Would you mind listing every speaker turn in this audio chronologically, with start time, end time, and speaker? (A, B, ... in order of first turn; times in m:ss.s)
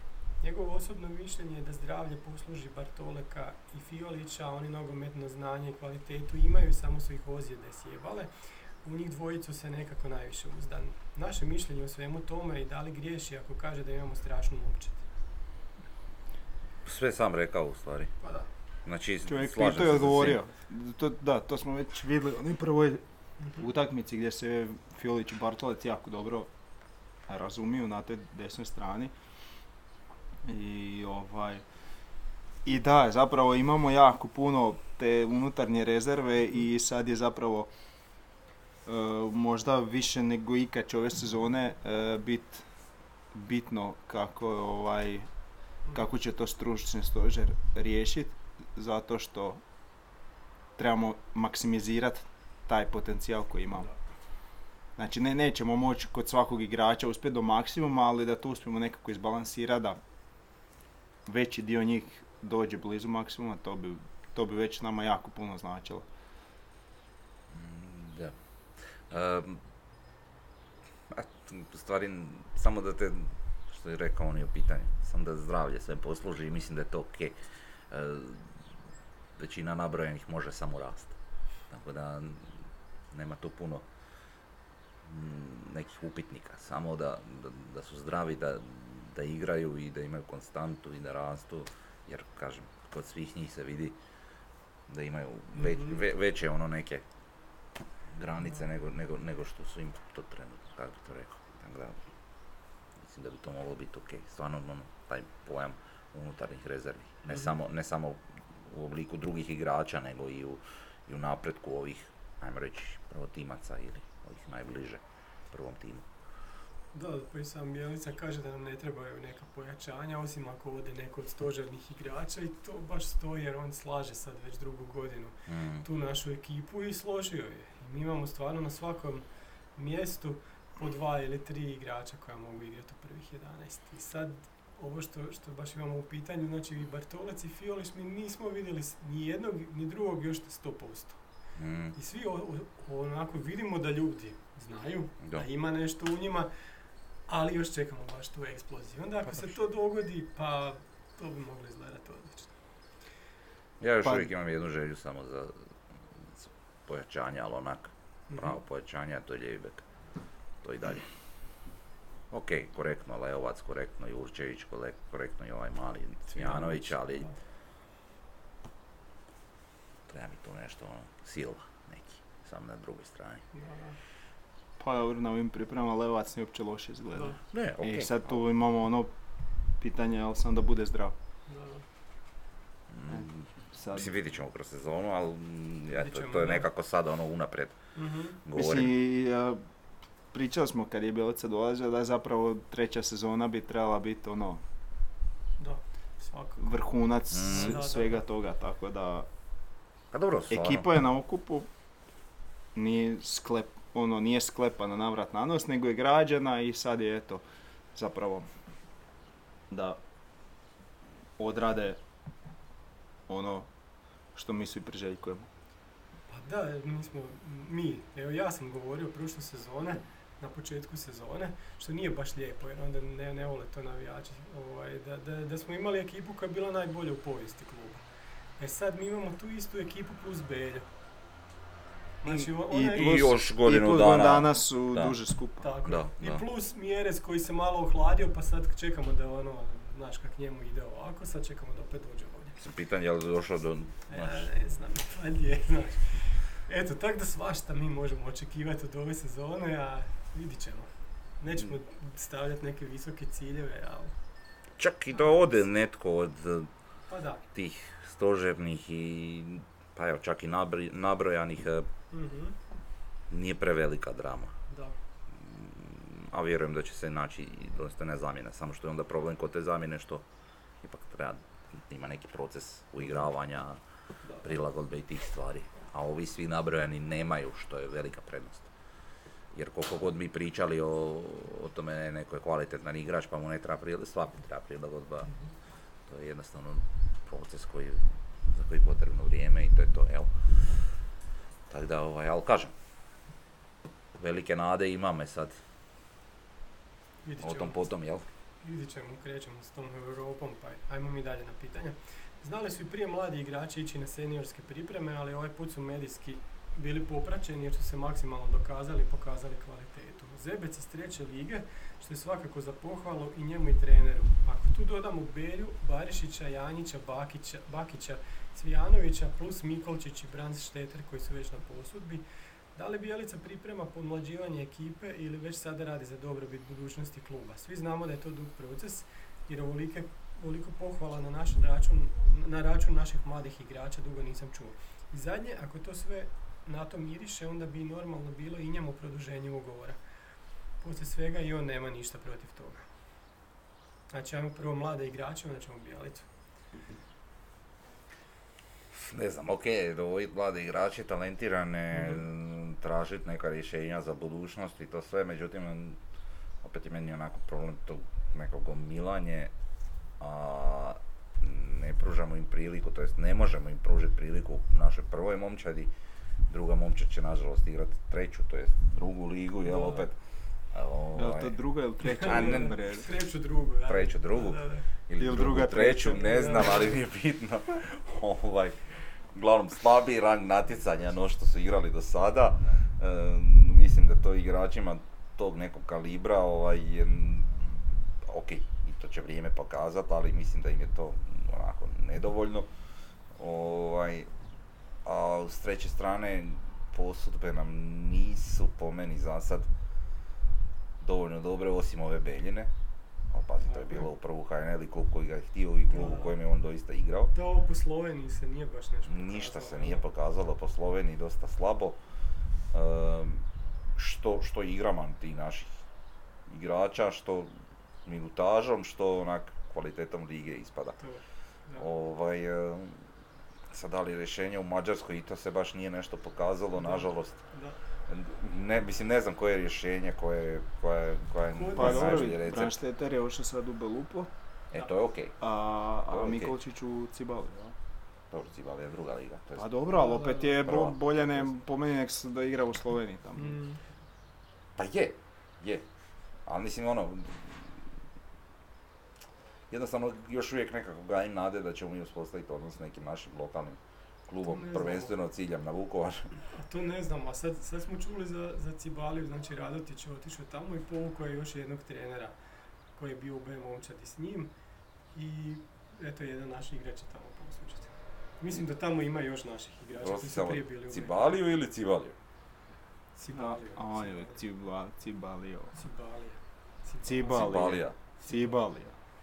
0:00.4-0:08.3 A
0:08.8-0:15.0 A
0:16.8-0:18.1 B
0:18.2-0:18.5 A
0:18.8-0:20.4 B
0:19.2-0:23.0 C
0:23.6-0:26.5 C
0:27.3-0:29.1 C
0:30.4-0:31.6 C
0:32.6-0:37.7 C
0:38.8-0:42.7 C
0:43.3-0:45.3 C
0:45.9-0:49.6 C
0:50.8-0:53.9 C
0:55.0-1:00.0 C
1:01.2-1:06.0 C
1:07.5-1:08.4 B
1:09.1-1:09.6 B
1:11.1-1:17.4 B
1:17.9-1:18.5 B
1:19.4-1:21.1 B
1:21.7-1:22.5 B
1:23.1-1:23.8 B
1:25.0-1:34.0 B
1:34.9-1:37.0 B
1:35.5-1:36.0 A
1:38.1-1:42.1 B
1:43.0-1:56.0 B
1:47.3-1:47.5 A
1:56.9-2:09.2 A
2:05.5-2:05.8 B
2:09.8-2:21.2 A
2:21.6-2:21.9 B
2:21.9-2:26.5 A
2:27.3-2:32.5 A
2:33.8-2:35.6 B
2:36.4-2:39.8 B
2:38.3-2:38.6 A
2:40.6-2:41.1 B
2:42.3-2:47.3 B
2:46.3-2:47.3 A
2:50.1-2:53.4 B
2:53.5-2:54.0 A
2:54.8-2:59.1 C
2:57.5-2:58.3 B
2:59.8-3:01.1 C
3:01.5-3:01.8 A
3:02.9-3:07.8 B
3:03.1-3:04.1 C
3:06.0-3:06.7 A
3:07.9-3:08.4 A
3:08.4-3:08.9 B
3:08.5-3:09.6 C
3:10.3-3:14.6 C
3:15.6-3:16.8 A
3:16.6-3:19.3 C
3:17.3-3:17.8 B
3:17.5-3:18.2 A
3:20.1-3:20.8 B
3:20.5-3:21.7 C
3:22.7-3:27.4 C
3:27.9-3:28.5 C
3:29.7-3:30.0 C
3:31.4-3:32.0 C
3:33.3-3:33.7 C
3:34.3-3:35.5 C
3:36.3-3:48.0 A
3:48.6-3:50.9 A
3:52.2-3:53.1 A
3:52.2-3:55.7 C
3:52.9-3:55.1 B
3:55.6-4:02.6 A
3:55.8-3:56.4 B
4:02.6-4:04.5 B
4:04.1-4:14.1 A
4:14.8-4:16.7 B
4:15.1-4:15.6 A
4:17.1-4:17.4 A
4:17.5-4:21.9 B
4:22.1-4:22.6 A
4:23.3-4:24.5 B
4:24.7-4:24.9 A
4:25.3-4:30.2 B
4:30.8-4:33.8 B
4:34.4-4:38.7 B
4:39.5-4:45.3 B
4:46.1-4:50.9 B
4:51.7-4:52.7 B
4:54.2-4:55.6 B
4:57.2-4:57.8 A
4:57.4-4:58.2 B
4:58.6-5:22.2 A
5:22.7-5:40.0 A
5:40.8-5:42.8 A
5:44.1-5:46.2 A
5:48.9-5:56.0 B
5:56.6-5:59.5 B
6:00.2-6:05.9 B
6:06.5-6:10.2 B
6:09.6-6:10.1 A
6:10.7-6:11.5 B
6:11.1-6:13.1 C
6:12.1-6:14.8 A
6:12.2-6:12.8 B
6:13.8-6:32.7 B
6:15.2-6:16.7 C
6:16.1-6:17.0 A
6:33.3-6:34.3 B
6:35.0-6:39.7 B
6:41.0-6:42.7 B
6:43.3-6:47.3 B
6:43.6-6:44.1 A
6:45.9-6:46.4 A
6:47.3-6:50.0 A
6:49.1-6:52.0 B
6:52.7-6:53.4 B
6:54.0-6:55.8 B
6:56.5-6:57.5 B
6:58.0-7:01.0 B
7:01.0-7:01.9 A
7:01.8-7:03.0 B
7:03.7-7:07.4 B
7:06.7-7:07.8 A
7:08.1-7:12.8 B
7:11.5-7:12.4 A
7:11.7-7:14.3 C
7:14.7-7:15.4 B
7:15.4-7:17.7 C
7:16.0-7:16.5 B
7:18.3-7:19.8 B
7:19.6-7:23.6 C
7:19.9-7:20.7 A
7:20.6-7:21.5 B
7:23.4-7:23.8 A
7:24.8-7:25.8 B
7:26.4-7:27.8 B
7:29.7-7:36.4 B
7:34.4-7:35.1 A
7:36.5-7:42.3 A
7:43.0-7:44.5 A
7:45.1-7:51.4 A
7:50.0-7:52.1 B
7:53.2-7:54.4 A
7:53.3-7:55.7 C
7:55.7-7:58.6 A
7:57.0-7:58.9 C
7:57.3-7:58.0 B